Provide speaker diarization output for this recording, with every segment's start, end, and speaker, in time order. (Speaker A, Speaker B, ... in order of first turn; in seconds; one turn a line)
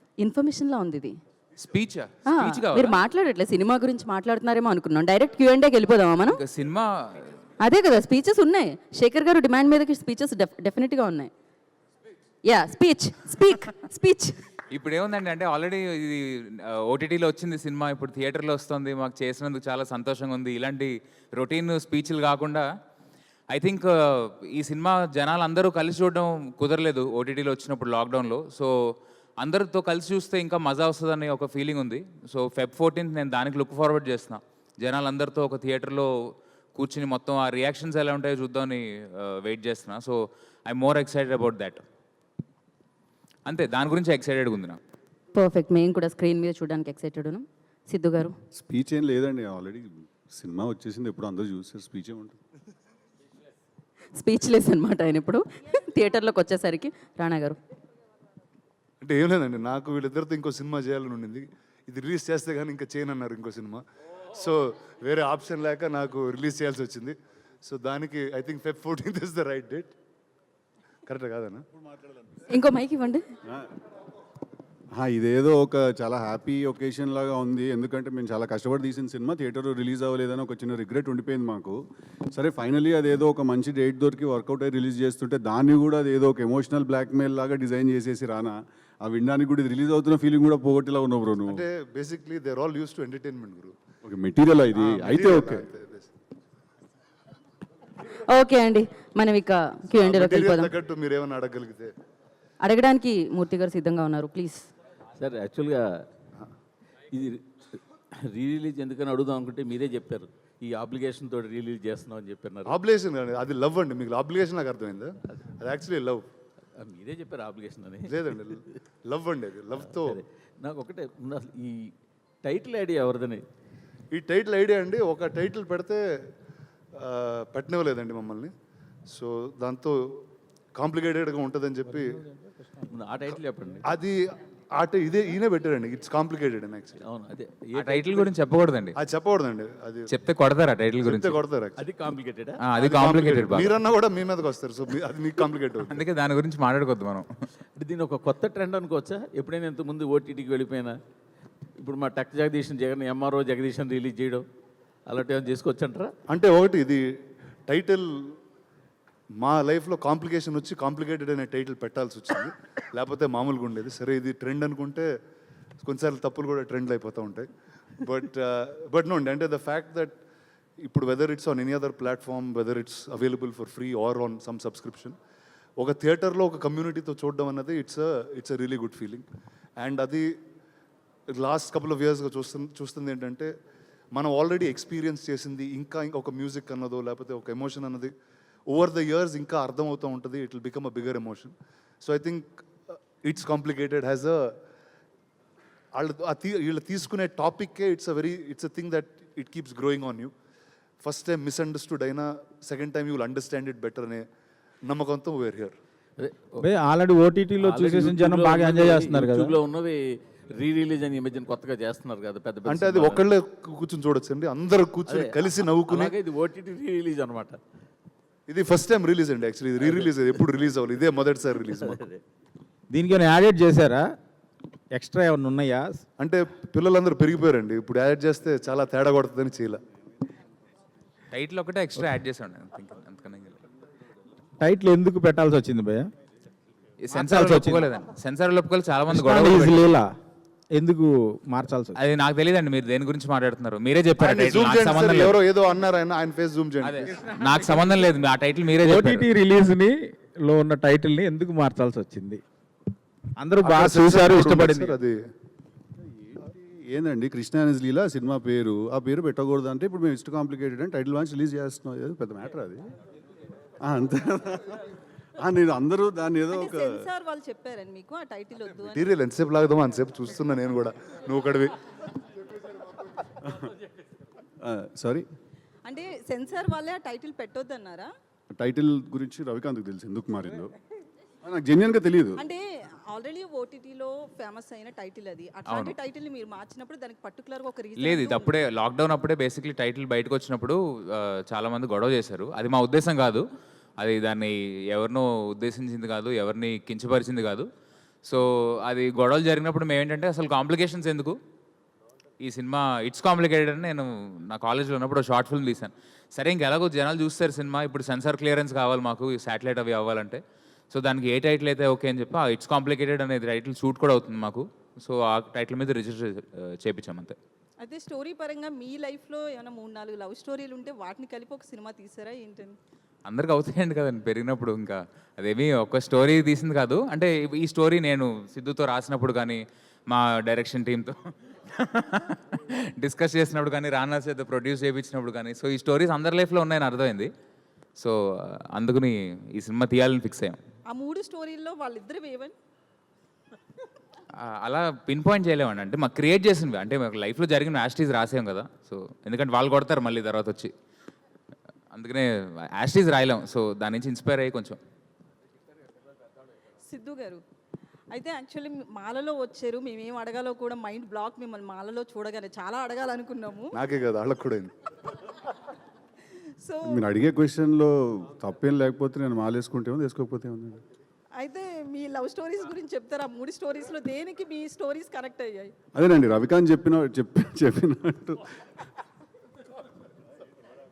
Speaker A: 0.2-1.2
Speaker B: 1.6-3.0
Speaker A: 2.3-6.4
Speaker B: 6.3-7.4
Speaker A: 7.6-11.3
Speaker A: 12.4-14.4
Speaker B: 14.7-22.7
Speaker B: 23.5-28.7
Speaker B: 29.4-36.1
Speaker B: 36.8-41.8
Speaker B: 43.5-44.8
Speaker A: 45.3-48.4
Speaker C: 48.5-52.4
Speaker A: 54.1-57.6
Speaker D: 59.0-69.9
Speaker D: 71.1-71.7
Speaker A: 72.5-73.2
Speaker C: 74.9-81.8
Speaker C: 82.3-91.6
Speaker D: 91.5-93.8
Speaker C: 94.0-95.7
Speaker D: 94.8-96.1
Speaker A: 98.1-100.7
Speaker D: 100.0-101.9
Speaker A: 102.6-104.7
Speaker E: 105.2-106.0
Speaker E: 107.1-112.8
Speaker D: 112.7-116.3
Speaker E: 116.8-118.6
Speaker D: 118.1-120.2
Speaker E: 119.8-123.5
Speaker D: 124.1-126.0
Speaker D: 127.0-128.5
Speaker D: 129.1-130.2
Speaker D: 130.8-132.2
Speaker E: 132.9-133.9
Speaker D: 133.8-137.0
Speaker E: 137.0-138.3
Speaker B: 137.8-139.0
Speaker D: 139.0-140.1
Speaker B: 140.1-141.4
Speaker D: 141.0-141.9
Speaker E: 141.8-142.7
Speaker B: 142.6-143.8
Speaker D: 142.8-146.0
Speaker B: 145.8-147.3
Speaker E: 147.8-151.0
Speaker E: 151.8-154.5
Speaker E: 155.1-156.1
Speaker D: 156.3-157.0
Speaker D: 157.7-158.1
Speaker D: 159.4-165.1
Speaker D: 165.8-167.5
Speaker D: 168.0-170.2
Speaker D: 170.8-175.2
Speaker D: 175.8-179.2
Speaker D: 179.8-180.3
Speaker D: 181.3-183.5
Speaker D: 184.1-188.1
Speaker D: 188.7-194.6
Speaker D: 195.9-200.3
Speaker D: 201.0-204.3
Speaker D: 204.9-205.8
Speaker E: 206.2-206.7
Speaker F: 206.6-209.5
Speaker E: 207.6-213.2
Speaker D: 212.7-216.2
Speaker E: 215.1-217.6
Speaker D: 218.5-222.0
Speaker E: 219.8-220.3
Speaker E: 221.6-222.2
Speaker F: 222.9-224.1
Speaker F: 224.9-226.0
Speaker D: 226.2-229.8
Speaker B: 231.3-233.6
Speaker F: 234.6-236.1
Speaker B: 237.0-239.8
Speaker F: 237.2-237.8
Speaker F: 239.2-240.2
Speaker F: 240.7-242.0
Speaker B: 242.0-245.4
Speaker D: 244.2-247.1
Speaker B: 246.8-249.3
Speaker F: 248.8-252.4
Speaker F: 253.4-254.9
Speaker D: 253.6-255.2
Speaker C: 256.0-262.9
Speaker C: 263.8-267.1
Speaker G: 266.6-268.9
Speaker D: 268.9-271.8
Speaker C: 273.4-273.7
Speaker C: 274.6-275.3
Speaker G: 275.9-278.1
Speaker C: 278.5-280.7
Speaker C: 281.4-282.4
Speaker G: 282.4-288.4
Speaker B: 285.7-286.0
Speaker B: 288.0-293.4
Speaker B: 294.0-297.7
Speaker B: 298.3-301.4
Speaker B: 302.4-317.4
Speaker G: 317.8-322.8
Speaker B: 323.3-331.1
Speaker B: 331.7-337.3
Speaker B: 338.7-340.6
Speaker G: 340.9-342.6
Speaker B: 344.4-350.7
Speaker B: 351.9-354.8
Speaker G: 356.9-357.4
Speaker G: 358.1-363.7
Speaker D: 363.7-364.7
Speaker C: 366.8-370.8
Speaker G: 371.4-375.7
Speaker C: 375.9-378.5